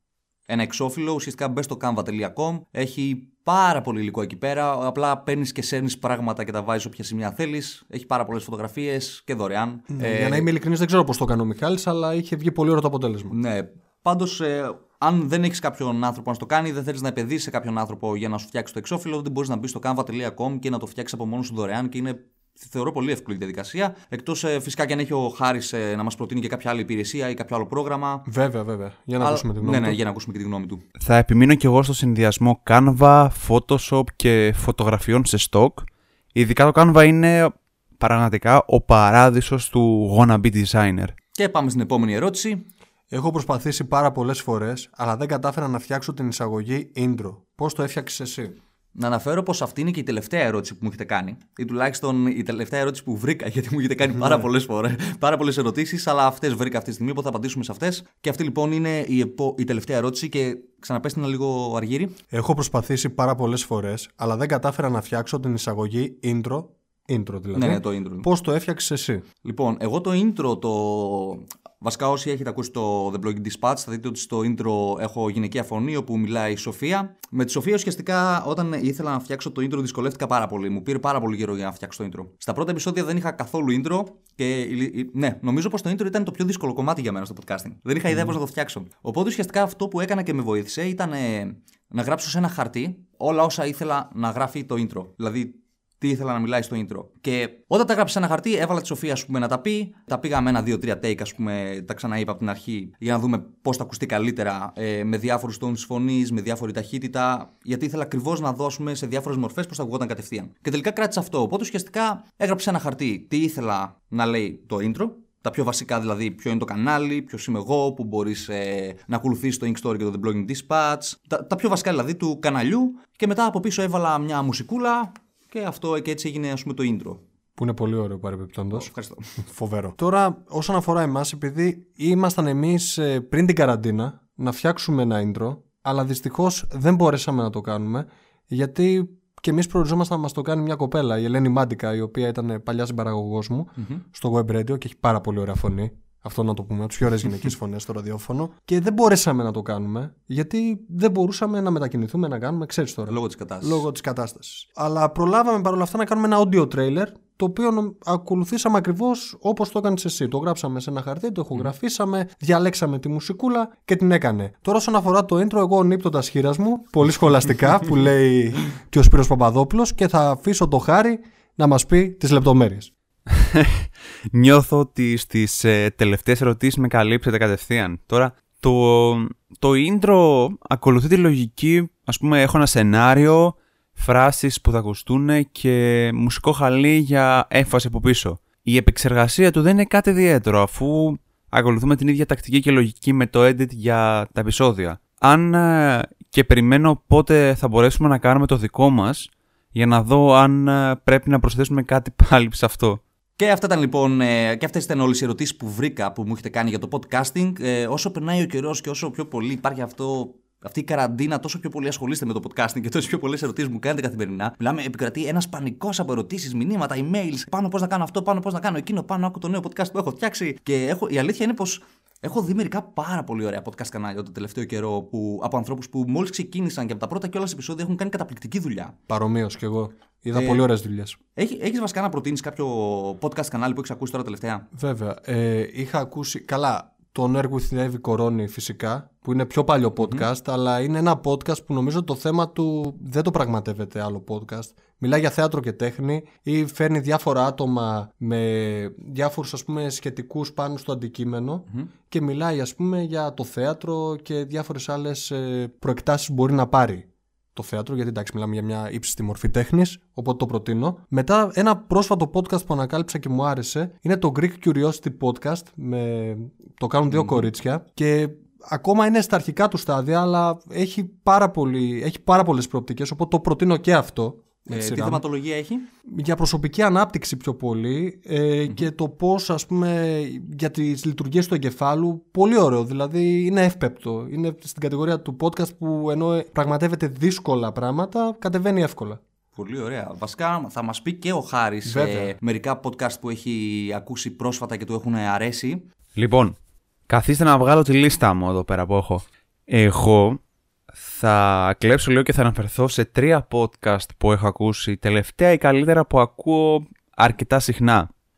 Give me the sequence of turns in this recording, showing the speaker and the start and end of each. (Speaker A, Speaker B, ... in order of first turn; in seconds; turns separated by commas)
Speaker A: 0.5-10.5, Speaker B: 9.9-13.3, Speaker A: 13.3-28.2, Speaker B: 28.2-30.0, Speaker A: 29.2-30.8, Speaker C: 31.0-41.1, Speaker A: 41.3-42.7, Speaker B: 43.1-48.6, Speaker A: 48.9-62.1, Speaker B: 54.1-54.5, Speaker B: 62.3-69.2, Speaker A: 67.5-68.3, Speaker A: 69.4-127.2, Speaker B: 88.1-88.4, Speaker B: 127.6-172.9, Speaker A: 128.7-129.3, Speaker A: 143.8-144.0, Speaker A: 153.1-153.8, Speaker C: 173.3-203.0, Speaker A: 203.4-228.9, Speaker B: 229.1-231.2, Speaker A: 230.3-230.7, Speaker A: 231.3-234.7, Speaker B: 234.7-275.2, Speaker A: 240.0-240.2, Speaker A: 267.1-267.5, Speaker A: 274.7-275.9, Speaker B: 276.1-289.2, Speaker A: 289.6-295.9, Speaker B: 291.8-292.3, Speaker C: 296.1-296.5, Speaker C: 297.1-300.4, Speaker C: 300.9-308.1